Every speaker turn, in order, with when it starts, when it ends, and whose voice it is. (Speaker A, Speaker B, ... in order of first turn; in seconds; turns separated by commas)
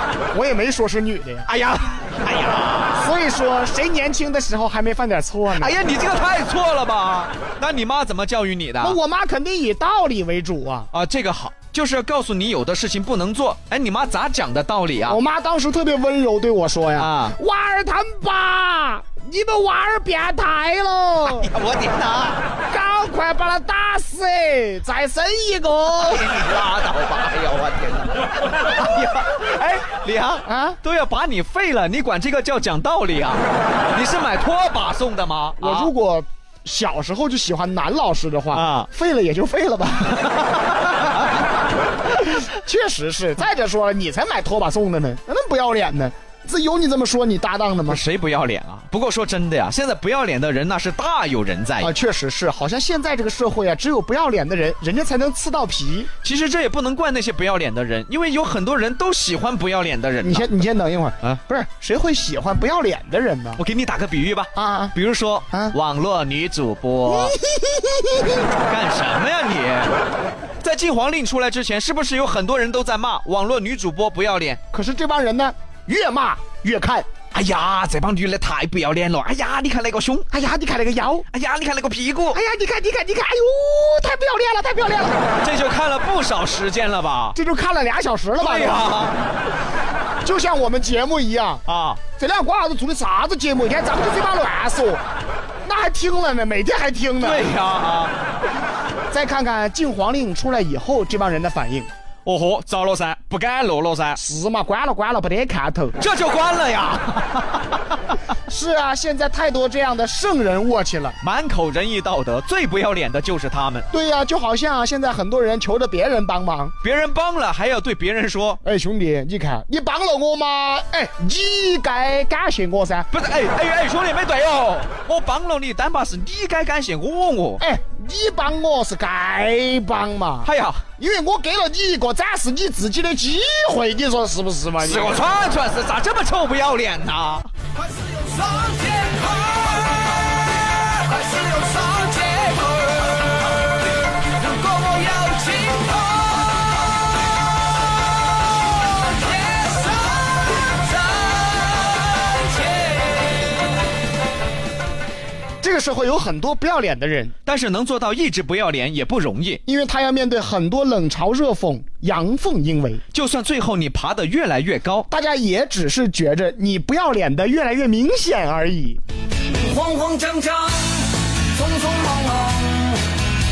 Speaker A: 0.3-1.5, Speaker B: 1.4-3.1, Speaker A: 2.9-5.8, Speaker B: 5.5-9.0, Speaker A: 8.8-10.9, Speaker B: 10.9-15.2, Speaker A: 15.1-21.5, Speaker B: 17.0-17.4, Speaker B: 21.2-22.4, Speaker A: 22.7-26.3, Speaker B: 26.0-35.9, Speaker A: 30.4-30.8, Speaker A: 35.6-40.3, Speaker B: 38.5-38.9, Speaker B: 40.2-41.3, Speaker A: 42.1-48.0, Speaker B: 47.9-51.9, Speaker A: 51.8-56.1, Speaker B: 56.2-60.5, Speaker A: 60.2-63.6, Speaker B: 63.6-67.3, Speaker A: 64.5-64.9, Speaker A: 67.1-68.4, Speaker B: 68.6-69.9, Speaker B: 70.6-74.6, Speaker A: 74.7-77.1, Speaker B: 77.3-80.3, Speaker A: 80.3-81.3, Speaker B: 81.3-82.4, Speaker A: 82.3-85.3, Speaker B: 85.4-87.4, Speaker A: 87.3-89.1, Speaker B: 88.4-89.2, Speaker A: 90.2-91.6, Speaker B: 91.7-92.0, Speaker A: 92.2-95.0, Speaker A: 95.6-97.5, Speaker B: 97.2-98.1, Speaker A: 99.1-101.9, Speaker B: 102.2-104.2, Speaker A: 104.1-106.0, Speaker B: 106.0-107.8, Speaker A: 108.5-111.2, Speaker B: 111.2-113.9, Speaker A: 113.9-116.7, Speaker B: 116.8-118.6, Speaker A: 118.6-123.1, Speaker B: 123.1-127.6, Speaker A: 127.6-135.2, Speaker B: 130.4-130.8, Speaker B: 134.8-137.5, Speaker C: 137.7-139.9, Speaker C: 140.9-143.2, Speaker C: 144.2-146.4, Speaker C: 149.3-150.1, Speaker A: 155.6-157.3, Speaker B: 157.4-159.6, Speaker A: 159.7-163.0, Speaker B: 163.1-165.1, Speaker A: 165.1-169.0, Speaker C: 169.5-173.1